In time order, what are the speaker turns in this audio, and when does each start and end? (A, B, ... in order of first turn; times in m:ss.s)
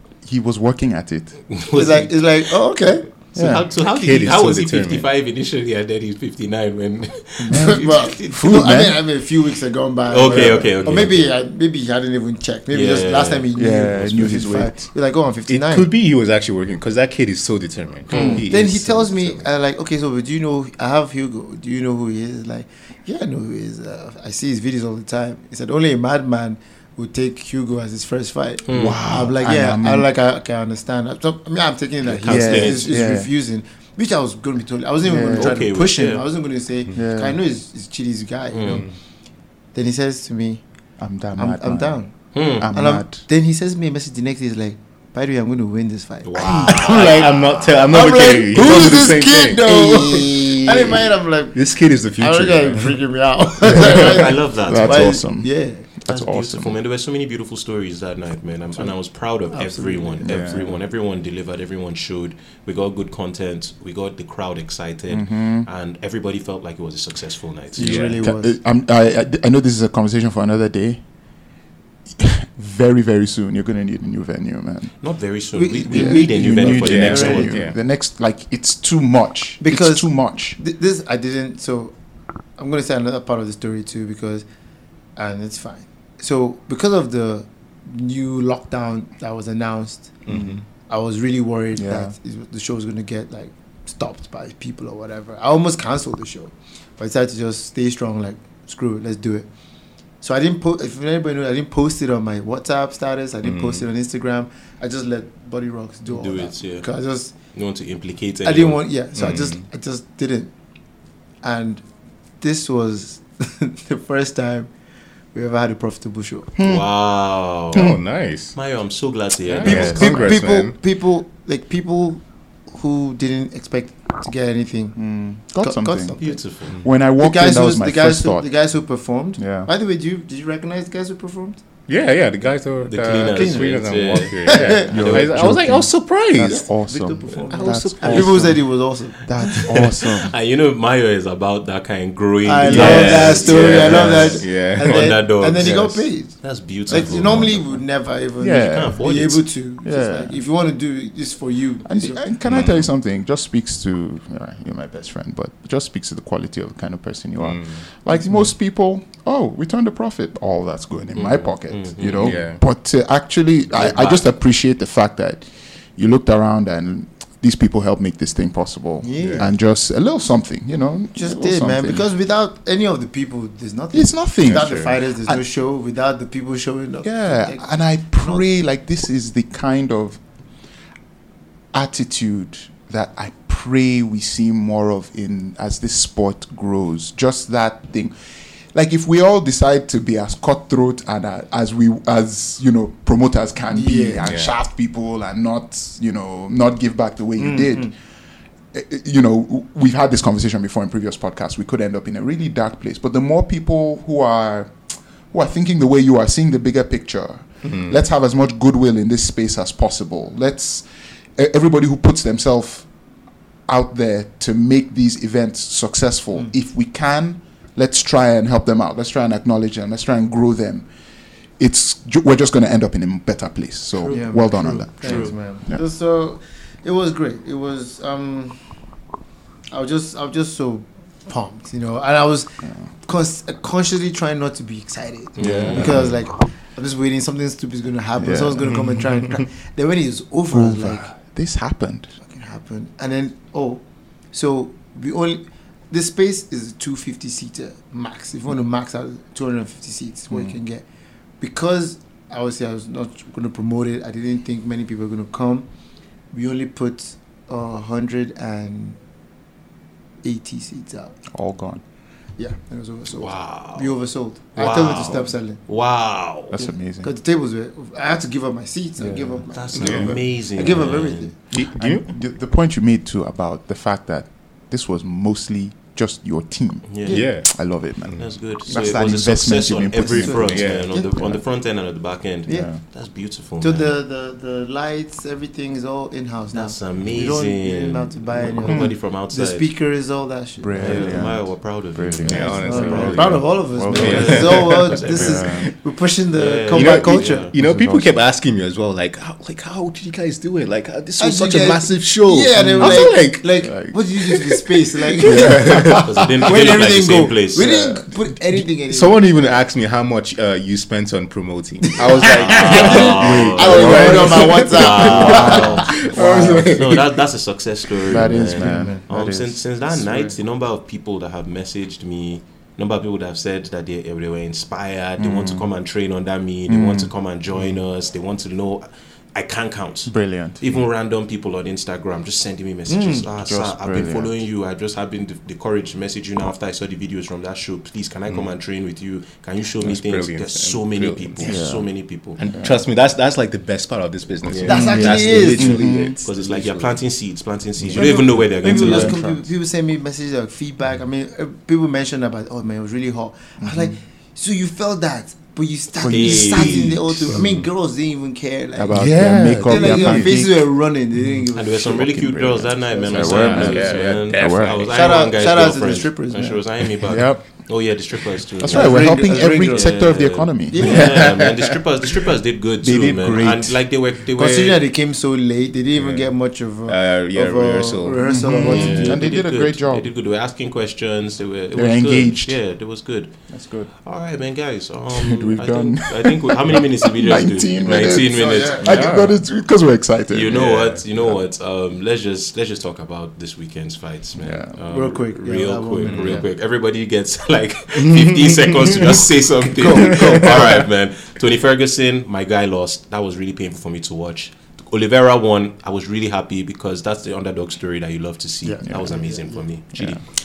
0:00.2-0:01.4 A
0:01.5-0:02.1 B
0:01.7-0:03.1 C
0:03.4-0:03.6 A
0:03.4-0:08.7 B
0:03.8-0:05.1 D
0:07.4-0:15.9 C
0:07.5-0:09.0 A
0:10.1-0:11.3 B
0:10.2-0:10.8 A
0:12.7-0:13.4 B
0:13.6-0:14.9 A
0:15.5-0:19.5 D
0:18.1-0:18.4 B
0:18.1-0:18.4 A
0:18.4-0:38.9 C
0:28.7-0:29.0 B
0:28.7-0:30.1 A
0:32.0-0:33.0 B
0:32.3-0:33.3 A
0:35.0-0:35.6 A
0:35.4-0:36.2 B
0:36.9-0:37.4 A
0:38.5-0:38.8 B
0:38.7-0:38.9 D
0:39.7-0:40.6 C
0:41.0-0:42.0 A
0:41.4-0:42.2 C
0:42.3-0:42.7 B
0:42.6-0:43.2 A
0:42.7-0:51.6 C
0:46.2-0:47.8 B
0:46.4-0:46.9 A
0:46.9-0:53.0 D
0:48.6-0:49.1 A
0:49.6-0:49.9 A
0:52.2-0:55.9 C
0:53.7-0:56.8 A
0:53.7-0:55.2 B
0:56.1-1:08.0 B
0:59.5-1:00.7 C
1:00.2-1:00.6 A
1:05.1-1:05.7 A
1:07.8-1:08.6 C
1:07.8-1:08.2 D
1:08.1-1:11.0 A
1:12.2-1:14.9 A
1:15.0-1:17.6 B
1:15.5-1:17.5 C
1:15.9-1:20.6 A
1:16.6-1:17.8 D
1:19.6-1:21.9 C
1:22.6-1:24.4 C
1:25.2-1:30.2 C
1:30.3-1:30.6 D
1:30.3-1:30.6 A
1:30.9-1:39.5 C
1:31.7-1:32.1 A
1:40.2-1:47.3 C
1:43.4-1:43.9 D
1:46.1-1:46.9 B
1:47.5-1:48.8 B
1:48.4-1:50.5 C
1:49.2-1:49.6 D
1:51.4-1:51.8 C
1:52.4-1:54.7 C
1:55.3-1:56.5 C
1:56.6-1:56.9 A
1:56.6-1:58.0 B
1:57.7-1:58.0 A
1:57.7-1:58.6 D
1:58.6-2:00.3 B
1:59.5-2:00.8 D
1:59.6-2:05.0 C
1:59.7-2:00.0 A
2:05.0-2:06.2 A
2:05.6-2:06.4 C
2:06.2-2:06.8 B
2:06.8-2:08.5 A
2:07.2-2:11.6 C
2:09.4-2:09.7 A
2:11.9-2:16.7 D
2:12.8-2:15.6 B
2:13.3-2:13.8 C
2:14.4-2:14.9 C
2:14.9-2:20.3 A
2:16.4-2:19.7 C
2:17.5-2:18.6 D
2:19.5-2:27.8 B
2:22.4-2:32.2 C
2:22.6-2:25.2 D
2:22.7-2:23.3 A
2:25.6-2:26.0 A
2:26.9-2:27.2 A
2:28.4-2:29.0 A
2:28.6-2:29.4 B
2:29.8-2:30.4 A
2:31.8-2:52.1 A
2:32.5-2:32.8 D
2:37.4-2:37.8 D
2:41.2-2:42.4 B
2:42.0-2:42.6 D
2:43.8-2:44.2 B
2:49.0-2:49.5 C
2:49.2-2:49.5 D
2:51.2-2:58.4 C
2:53.9-2:55.4 A
2:54.4-2:55.0 D
2:57.0-3:00.2 A
3:01.7-3:08.1 A
3:08.7-3:17.9 A
3:13.7-3:14.3 C
3:14.2-3:14.5 D
3:17.4-3:17.9 C
3:18.7-3:24.7 A
3:25.3-3:32.9 A
3:27.6-3:27.9 D
3:33.7-3:40.9 A
3:41.6-3:45.8 A
3:44.0-3:48.6 C
3:45.0-3:45.3 B
3:49.7-4:01.1 C
3:55.4-3:56.1 B
3:55.4-3:56.0 D
3:55.5-3:56.2 A
3:58.2-3:58.8 A
3:58.6-3:59.4 D
4:00.5-4:02.1 A
4:02.2-4:03.8 C
4:04.3-4:10.8 C
4:10.3-4:10.6 A
4:11.4-4:15.7 C
4:16.3-4:19.0 C
4:20.2-4:21.2 C
4:21.3-4:21.8 A
4:22.4-4:25.6 C
4:23.2-4:24.0 B
4:24.6-4:26.6 B
4:26.5-4:27.1 A
4:26.6-4:31.3 C
4:29.0-4:29.4 A
4:29.5-4:31.3 B
4:29.8-4:30.2 D
4:31.5-4:32.1 D
4:31.8-4:41.3 A
4:36.9-4:37.2 B
4:37.1-4:38.3 D
4:38.2-4:43.9 B
4:38.7-4:39.0 C
4:40.2-4:41.4 C
4:40.5-4:40.9 D
4:42.5-4:42.8 C
4:42.5-4:42.8 A
4:43.6-4:51.3 C
4:46.5-4:49.7 B
4:48.6-4:49.0 A
4:50.6-4:55.7 A
4:50.8-4:55.6 B
4:52.2-4:54.9 D
4:52.3-4:57.5 C
4:56.3-4:57.5 B
4:56.7-5:03.5 D
4:57.6-4:58.2 A
5:01.2-5:09.2 C
5:02.6-5:04.0 A
5:04.2-5:06.5 D
5:05.2-5:06.0 A
5:05.8-5:07.7 B
5:07.6-5:08.1 A
5:08.9-5:17.2 D
5:12.0-5:16.7 C
5:12.1-5:42.4 B
5:12.7-5:16.6 A
5:18.0-5:20.3 A
5:18.3-5:19.1 C
5:25.2-5:25.7 A
5:26.7-5:27.8 A
5:30.1-5:30.6 A
5:32.9-5:33.3 C
5:33.4-5:34.4 A
5:39.8-5:41.6 D
5:41.4-5:41.9 A
5:42.4-5:47.0 D
5:42.5-5:42.8 A
5:44.4-5:49.2 B
5:44.6-5:45.9 C
5:44.7-5:46.2 A
5:47.9-6:03.7 C
5:48.6-5:49.5 A
5:53.6-5:54.0 A
5:56.0-5:57.5 A
5:56.0-5:57.4 B
5:57.4-5:57.7 D
5:58.8-6:00.7 A
5:58.9-6:00.4 D
6:01.6-6:14.8 B
6:02.5-6:04.8 A
6:03.1-6:04.8 D
6:04.9-6:06.6 C
6:07.0-6:07.4 A
6:08.6-6:11.1 A
6:08.7-6:09.9 C
6:10.7-6:11.2 C
6:10.8-6:11.7 D
6:12.8-6:13.8 A
6:14.4-6:19.2 C
6:16.0-6:16.3 D
6:16.9-6:18.3 D
6:18.2-6:20.1 A
6:18.6-6:23.3 B
6:21.7-6:22.6 A
6:23.5-6:23.9 A
6:24.0-6:29.2 B
6:25.1-6:30.6 A
6:28.2-6:28.9 C
6:28.8-6:29.4 D
6:30.3-6:50.2 B
6:30.5-6:31.0 D
6:34.4-6:34.7 A
6:34.9-6:36.4 C
6:36.0-6:36.4 D
6:38.0-6:39.2 D
6:39.8-6:40.7 C
6:39.9-6:40.6 D
6:48.7-6:49.6 C
6:48.8-6:49.2 A
6:49.9-6:50.2 A